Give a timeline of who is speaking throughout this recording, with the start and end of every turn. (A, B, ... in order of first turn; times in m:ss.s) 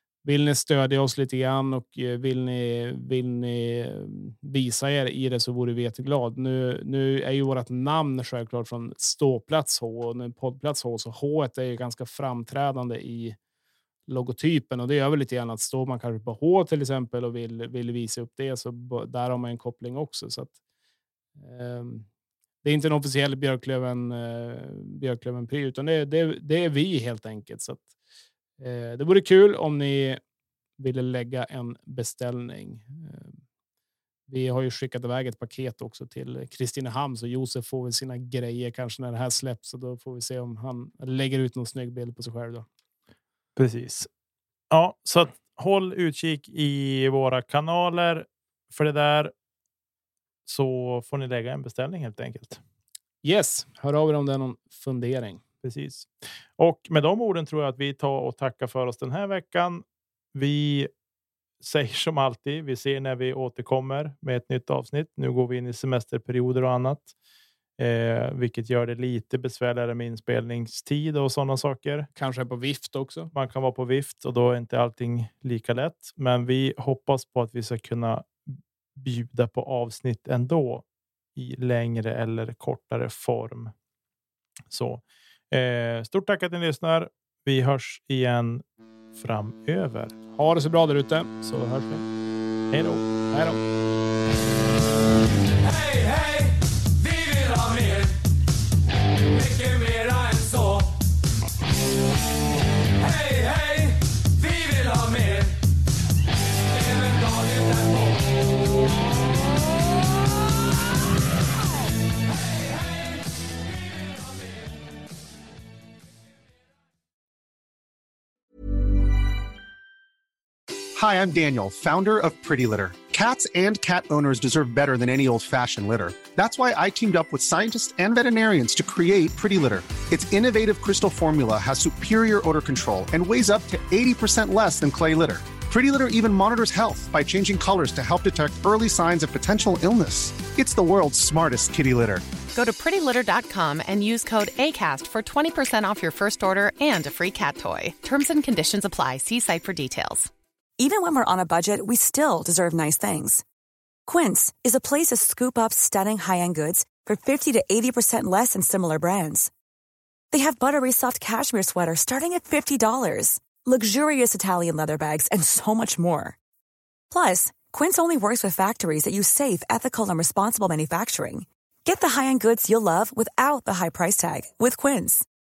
0:00.2-0:13.4 A
0:14.1-0:20.6 A
0:21.4-0:22.1 A
0:22.6-0:27.9 A
0:28.6-0:30.2 A
0:30.8-0:33.4 A
0:34.3-0:42.7 A
0:43.6-0:44.1 B
0:44.7-0:49.3 B
0:50.4-0:52.6 B
0:53.2-0:55.4 A
0:55.6-1:00.9 B
1:01.6-1:07.1 B
1:07.8-1:12.1 B
1:12.2-1:13.3 A
1:13.3-1:20.8 B
1:21.4-1:23.7 B
1:24.7-1:28.6 B
1:29.1-1:30.2 B
1:30.3-1:32.0 A
1:32.7-1:33.0 B
1:33.3-1:33.6 A
2:01.0-2:22.2 C
2:22.5-2:30.3 D
2:30.8-2:33.4 E
2:34.0-2:39.5 E
2:40.3-2:46.4 E
2:47.1-2:55.3 E